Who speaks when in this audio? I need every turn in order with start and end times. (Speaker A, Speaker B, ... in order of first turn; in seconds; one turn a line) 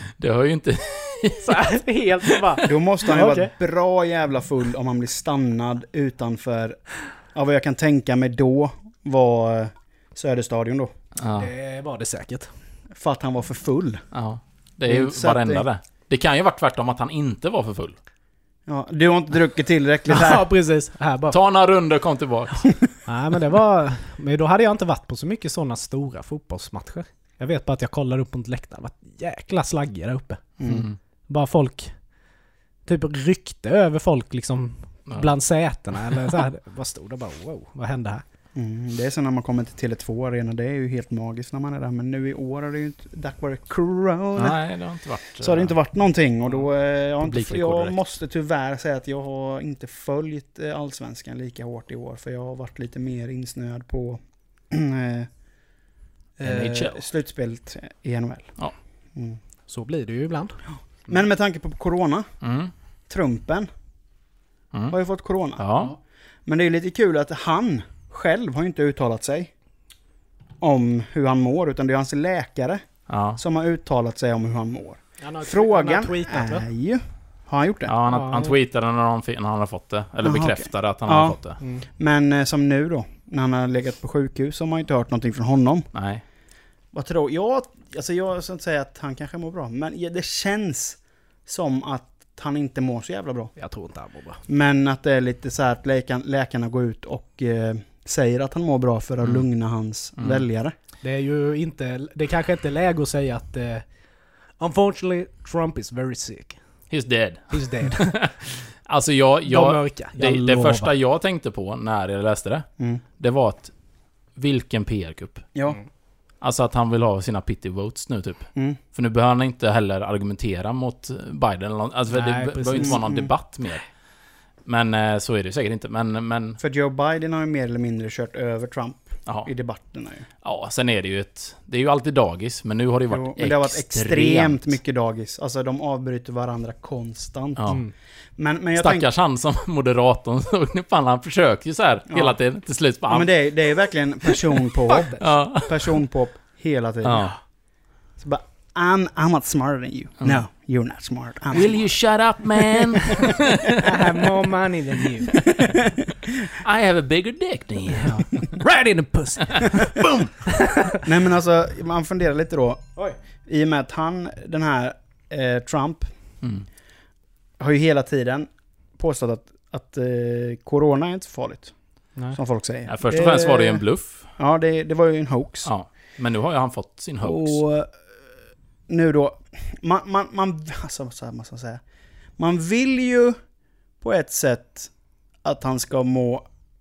Speaker A: 0.2-1.6
Speaker B: 1.4-3.5
Speaker C: 2.7-10.9
Speaker A: 11.2-11.5
Speaker B: 11.4-12.5
Speaker C: 12.9-14.0
Speaker A: 14.1-18.0
Speaker C: 14.9-15.7
Speaker C: 18.7-20.4
Speaker B: 20.1-21.4
Speaker A: 21.3-22.7
Speaker B: 23.1-32.2
Speaker C: 30.6-30.9
Speaker A: 30.6-31.0
Speaker B: 32.9-38.2
Speaker A: 35.1-35.3
Speaker C: 38.5-44.7
Speaker A: 44.4-45.8
Speaker C: 45.4-55.4
Speaker A: 47.2-48.0
Speaker C: 56.4-59.4
Speaker A: 56.4-57.0
Speaker B: 59.7-60.7
Speaker C: 60.7-62.3
Speaker A: 62.4-62.7
Speaker C: 63.1-63.7
Speaker C: 64.9-65.8
Speaker A: 65.6-66.0
Speaker C: 66.5-69.5
Speaker C: 70.6-77.9
Speaker A: 73.1-73.4
Speaker B: 75.2-76.7
Speaker A: 77.9-81.6
Speaker B: 78.1-78.5
Speaker C: 80.2-85.9
Speaker B: 81.6-81.9
Speaker A: 85.9-86.2
Speaker C: 86.9-93.6
Speaker B: 93.6-94.4
Speaker C: 94.5-100.8
Speaker A: 99.2-99.5
Speaker A: 100.2-100.5
Speaker B: 101.0-106.9
Speaker A: 106.9-108.3
Speaker B: 107.5-108.5
Speaker A: 108.8-115.5
Speaker B: 109.5-110.9
Speaker C: 115.5-115.8
Speaker A: 116.4-123.9
Speaker B: 122.1-123.0
Speaker C: 122.8-123.3
Speaker A: 124.6-126.6
Speaker C: 126.6-130.3
Speaker A: 129.2-129.5
Speaker A: 130.4-134.8
Speaker C: 133.1-137.9
Speaker A: 137.6-137.8
Speaker C: 138.4-139.1
Speaker A: 138.8-143.6
Speaker C: 142.1-142.4
Speaker C: 143.1-147.6
Speaker B: 144.9-145.3
Speaker A: 145.2-146.0
Speaker A: 147.0-147.4
Speaker C: 148.2-152.1
Speaker A: 150.2-150.5
Speaker A: 151.5-153.9
Speaker B: 153.8-155.5
Speaker A: 155.4-155.8
Speaker A: 156.6-158.6
Speaker B: 158.3-161.0
Speaker C: 161.0-166.1
Speaker A: 166.4-166.7
Speaker C: 167.6-175.7
Speaker A: 172.9-174.3
Speaker A: 175.7-177.6
Speaker C: 177.2-178.0
Speaker C: 178.9-181.8
Speaker C: 182.4-183.4
Speaker C: 184.0-186.5